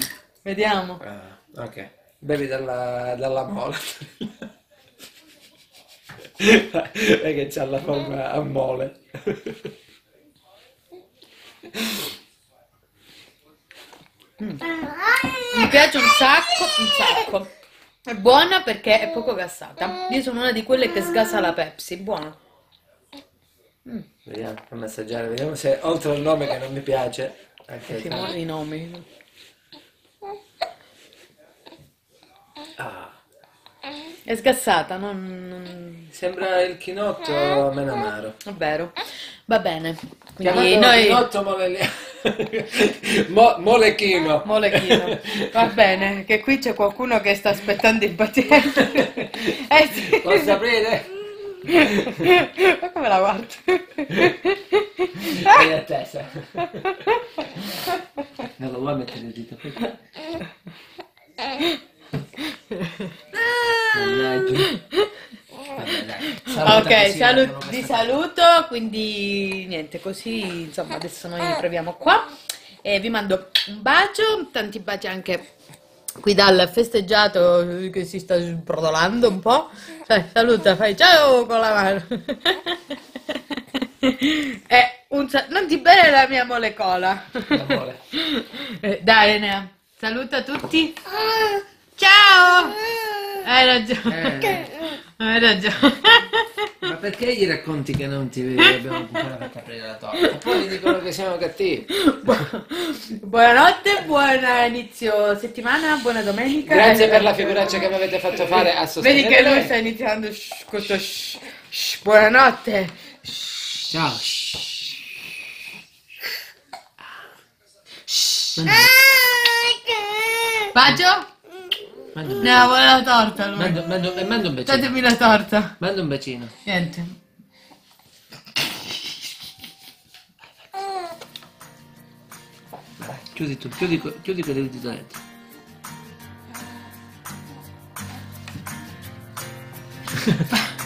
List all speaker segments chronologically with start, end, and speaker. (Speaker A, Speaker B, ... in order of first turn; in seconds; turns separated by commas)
Speaker A: 0.4-1.0, Speaker B: 1.0-4.4, Speaker B: 6.4-9.7, Speaker A: 14.4-14.8, Speaker A: 15.4-17.5, Speaker A: 18.1-22.4, Speaker B: 24.2-28.3, Speaker A: 27.9-29.1, Speaker B: 32.8-33.1, Speaker A: 34.2-36.1, Speaker B: 36.1-38.3, Speaker A: 38.4-41.2, Speaker B: 40.4-45.7, Speaker A: 44.4-50.6, Speaker B: 48.8-52.4, Speaker A: 51.6-55.6, Speaker B: 55.2-57.0, Speaker A: 56.6-57.7, Speaker B: 57.6-57.9, Speaker B: 58.5-60.0, Speaker A: 61.5-61.8, Speaker A: 62.4-64.0, Speaker B: 63.9-64.7, Speaker A: 64.6-65.1, Speaker B: 65.7-68.1, Speaker A: 65.9-72.3, Speaker A: 72.8-75.4, Speaker A: 76.2-92.8, Speaker B: 87.5-88.0, Speaker B: 92.9-93.3, Speaker A: 93.4-96.8, Speaker B: 94.1-94.7, Speaker B: 96.8-102.5, Speaker A: 100.2-100.9, Speaker A: 101.9-113.9, Speaker B: 106.6-109.7, Speaker B: 113.9-114.7, Speaker A: 118.1-121.3, Speaker B: 118.5-119.0, Speaker B: 122.1-122.7, Speaker A: 122.4-123.8, Speaker B: 123.5-124.9, Speaker A: 124.6-125.8, Speaker B: 125.8-126.5, Speaker A: 126.6-127.2, Speaker B: 133.0-135.2